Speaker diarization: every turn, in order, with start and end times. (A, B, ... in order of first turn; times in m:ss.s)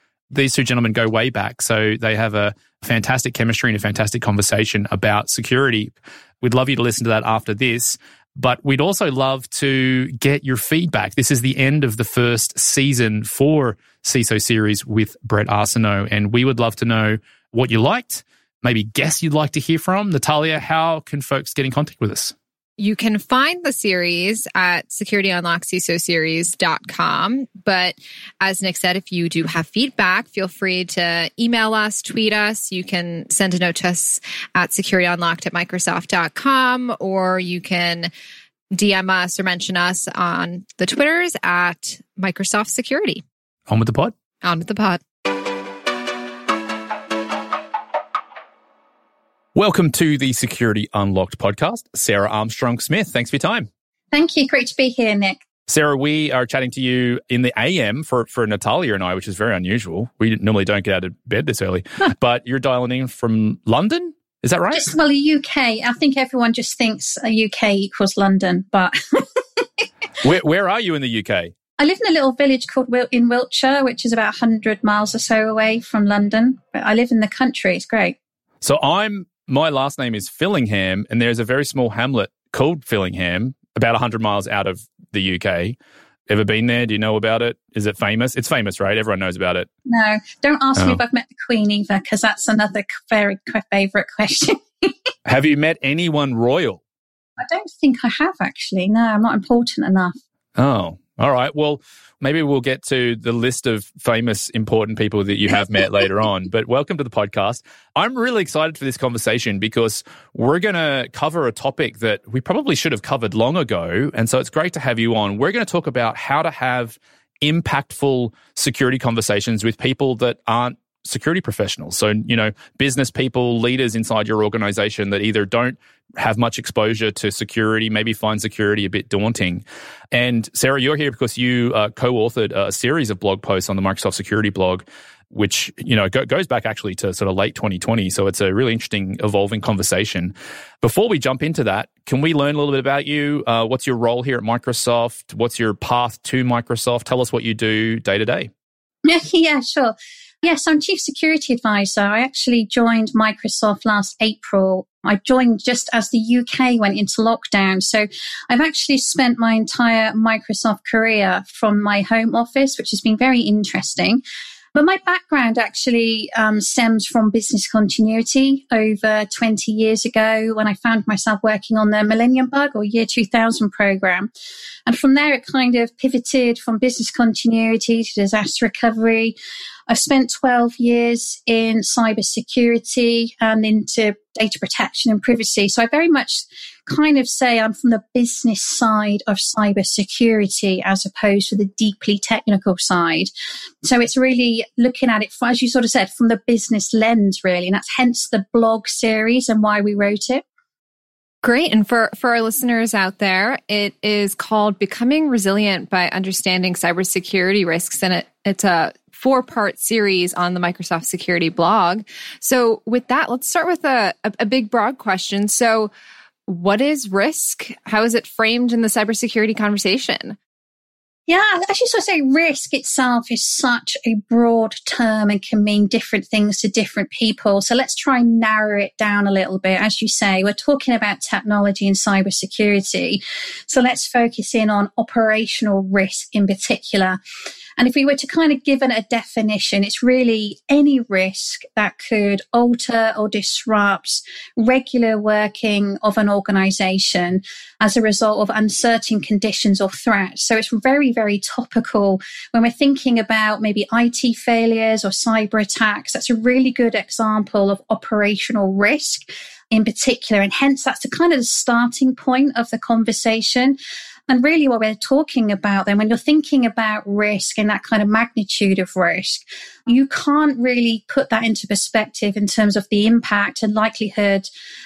0:00.3-0:22.3 A
0:22.8-0:38.1 B
0:38.7-0:43.2 B
0:43.7-0:44.1 A
0:44.4-0:45.0 B
0:49.5-0:53.7 A
0:54.1-0:55.4 C
0:55.7-1:04.9 A
1:04.7-1:09.6 C
1:10.2-1:11.5 A
1:11.8-1:18.2 C
1:18.6-1:25.8 A
1:26.3-1:29.7 A
1:29.8-1:34.9 C
1:35.2-1:36.8 A
1:37.4-1:40.2 C
1:40.6-2:28.5 A
2:29.0-2:44.2 C
2:44.7-2:54.3 C
2:54.8-2:59.3 C
2:59.9-3:13.3 C
3:13.8-3:20.4 C
3:21.4-3:35.9 B
3:36.5-3:40.4 B
3:41.3-3:57.2 C
3:57.8-4:23.8 C
4:24.3-4:34.5 C